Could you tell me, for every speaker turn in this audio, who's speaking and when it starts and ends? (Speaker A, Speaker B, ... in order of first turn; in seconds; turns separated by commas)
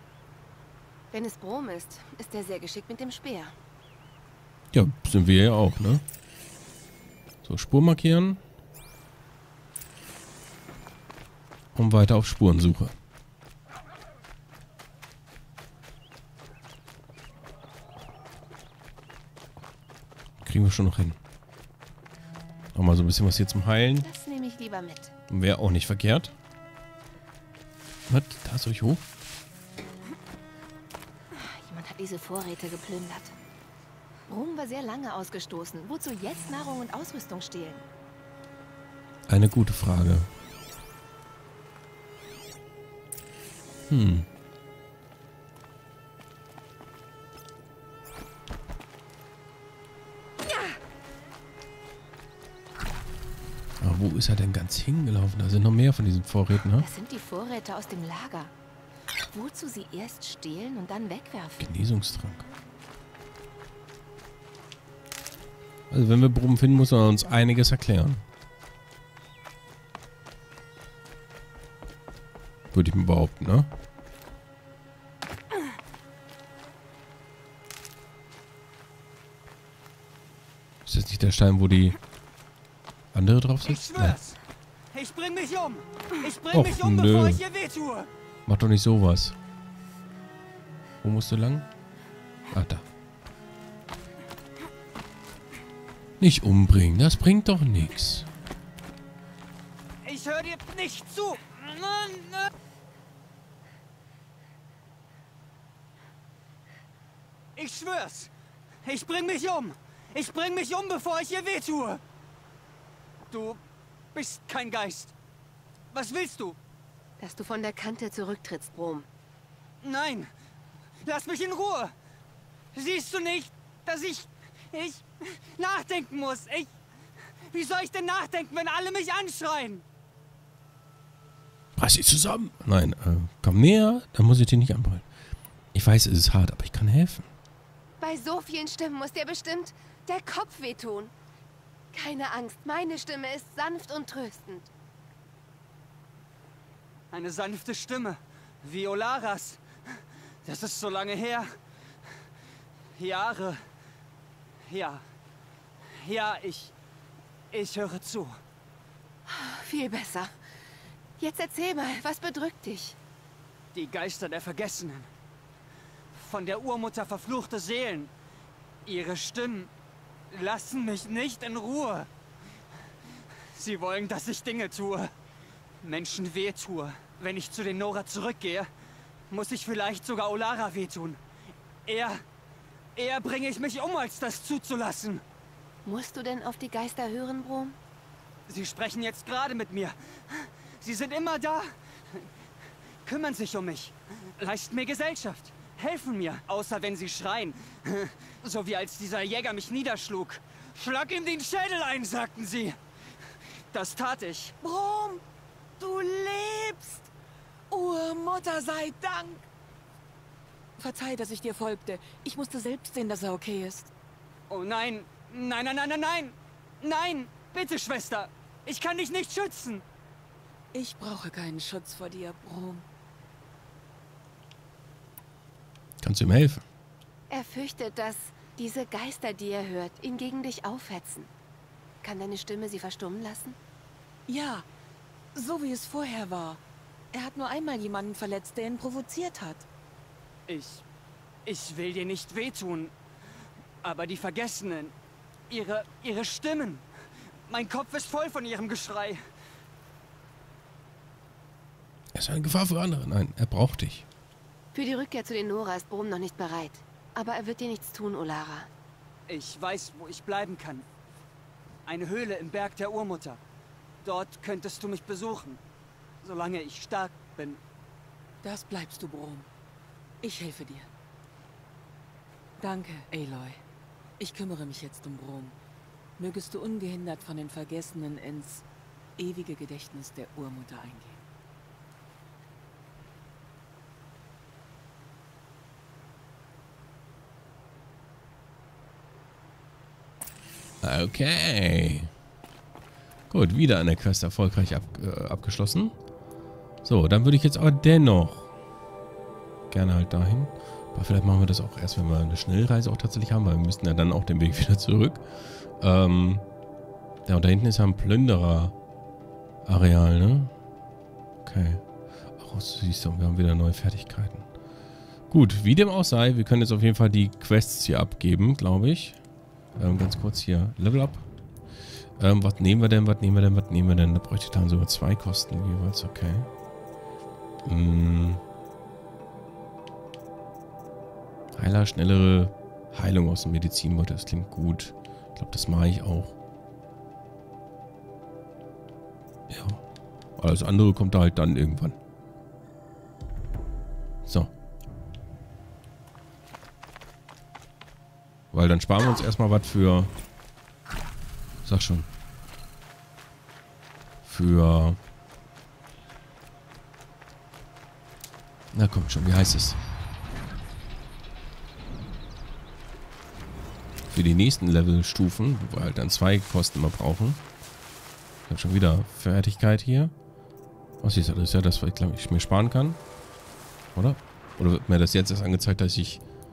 Speaker A: 1.1-3.5, Speaker B: 4.7-6.0, Speaker B: 7.4-8.4, Speaker B: 11.7-12.9, Speaker B: 20.4-21.2, Speaker B: 22.7-24.1, Speaker A: 24.0-25.1, Speaker B: 25.3-26.3, Speaker B: 28.1-29.0, Speaker A: 31.3-33.3, Speaker A: 34.3-37.9, Speaker B: 39.3-40.3, Speaker B: 43.9-44.3, Speaker B: 53.8-56.9, Speaker A: 56.8-58.5, Speaker A: 59.3-61.7, Speaker B: 61.6-62.4, Speaker B: 65.9-68.2, Speaker B: 72.7-73.7, Speaker B: 80.8-82.0, Speaker B: 83.1-84.2, Speaker C: 83.6-84.4, Speaker C: 84.9-88.1, Speaker B: 86.5-87.4, Speaker B: 88.5-89.3, Speaker B: 91.0-91.7, Speaker B: 92.5-92.8, Speaker B: 96.2-98.3, Speaker C: 100.0-102.5, Speaker C: 107.5-108.3, Speaker C: 108.8-112.0, Speaker C: 113.3-113.6, Speaker C: 114.1-115.1, Speaker C: 115.9-116.6, Speaker A: 117.2-119.1, Speaker C: 119.8-120.3, Speaker C: 121.0-121.9, Speaker C: 122.7-126.7, Speaker C: 127.5-129.8, Speaker B: 131.8-135.1, Speaker B: 135.7-137.3, Speaker A: 138.0-141.1, Speaker A: 141.9-144.7, Speaker C: 147.1-149.6, Speaker C: 150.4-151.5, Speaker C: 152.9-153.6, Speaker C: 154.7-155.0, Speaker C: 155.9-156.7, Speaker C: 157.5-158.4, Speaker A: 159.2-160.3, Speaker A: 161.2-163.0, Speaker C: 163.7-165.1, Speaker C: 166.1-168.1, Speaker C: 168.8-169.7, Speaker C: 170.3-172.1, Speaker C: 173.5-175.1, Speaker C: 175.8-178.7, Speaker C: 179.3-181.2, Speaker C: 181.8-182.2, Speaker C: 182.9-185.2, Speaker A: 185.8-187.8, Speaker C: 188.5-192.2, Speaker C: 193.0-202.8, Speaker C: 203.7-204.6, Speaker D: 204.6-205.2, Speaker D: 205.8-207.1, Speaker D: 207.7-209.5, Speaker D: 210.8-213.9, Speaker C: 214.5-219.8, Speaker D: 220.7-222.8, Speaker B: 226.0-226.6, Speaker A: 227.3-231.3, Speaker A: 232.0-233.6, Speaker D: 234.3-234.7, Speaker D: 235.3-236.6, Speaker D: 237.1-239.7, Speaker C: 240.5-240.8, Speaker C: 241.4-242.9, Speaker C: 243.8-244.9, Speaker C: 245.5-246.8, Speaker C: 247.5-249.2, Speaker B: 252.1-254.1, Speaker A: 254.7-258.7, Speaker C: 259.3-260.8, Speaker C: 261.9-263.4, Speaker C: 264.0-265.6, Speaker C: 266.2-267.6, Speaker D: 268.4-269.5, Speaker D: 270.2-270.9, Speaker D: 272.6-273.6, Speaker D: 274.2-275.6, Speaker D: 276.2-278.6, Speaker D: 279.2-281.2, Speaker B: 290.8-292.1, Speaker B: 293.3-296.0, Speaker B: 296.8-298.5, Speaker B: 299.7-306.4, Speaker B: 307.2-308.7, Speaker B: 309.6-310.5, Speaker B: 311.4-311.8, Speaker B: 312.4-314.4, Speaker B: 315.3-319.2, Speaker B: 319.7-321.2, Speaker B: 322.2-326.5, Speaker B: 327.6-328.4, Speaker B: 331.6-336.4, Speaker B: 339.5-339.8, Speaker B: 340.4-342.0, Speaker B: 344.2-344.5, Speaker B: 348.5-350.1, Speaker B: 351.6-352.1, Speaker B: 354.2-355.0, Speaker B: 358.7-359.8, Speaker B: 364.1-367.4, Speaker B: 368.5-370.1, Speaker B: 371.0-373.0, Speaker B: 373.9-376.2